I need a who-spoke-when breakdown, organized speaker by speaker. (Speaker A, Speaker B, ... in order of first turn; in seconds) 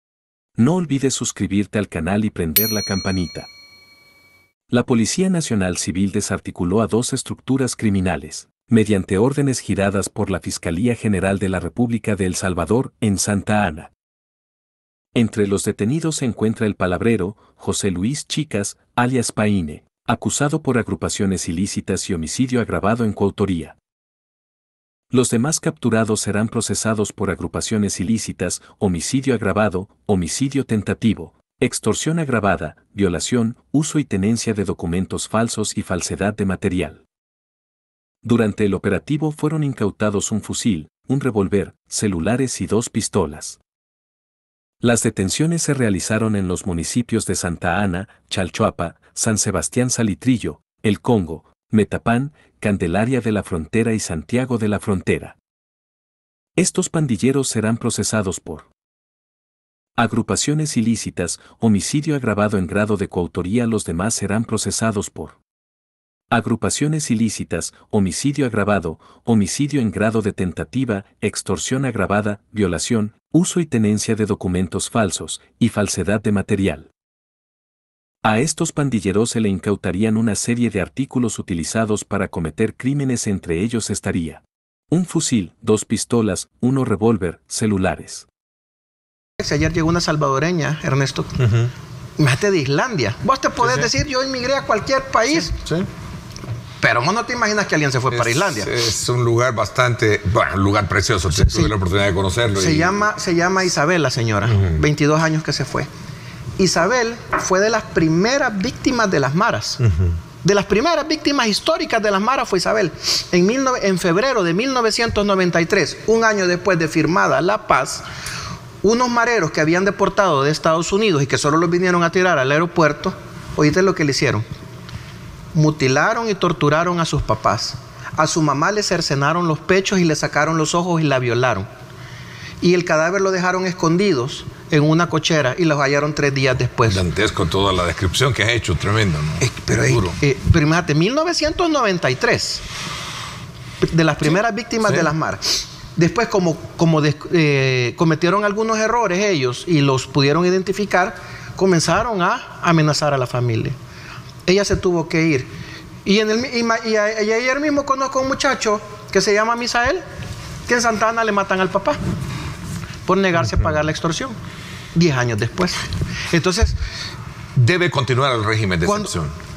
Speaker A: 0.6-3.5, 4.7-13.9, 15.1-23.8, 25.1-37.0, 38.2-43.6, 44.8-55.4, 56.6-58.7, 60.0-65.4, 66.3-76.9, 78.2-88.3
Speaker B: 89.4-91.4, 92.2-95.6, 96.8-98.7, 101.3-101.7, 102.5-105.9, 106.6-109.8, 110.4-118.0, 118.8-124.4, 125.5-131.7, 132.6-137.0, 139.4-142.6, 143.8-153.8, 154.5-155.5, 156.1-160.0, 160.7-162.0, 163.1-164.3, 164.9-165.8, 166.3-166.8, 168.8-169.1
Speaker C: 98.1-103.0, 136.9-140.2, 167.6-169.3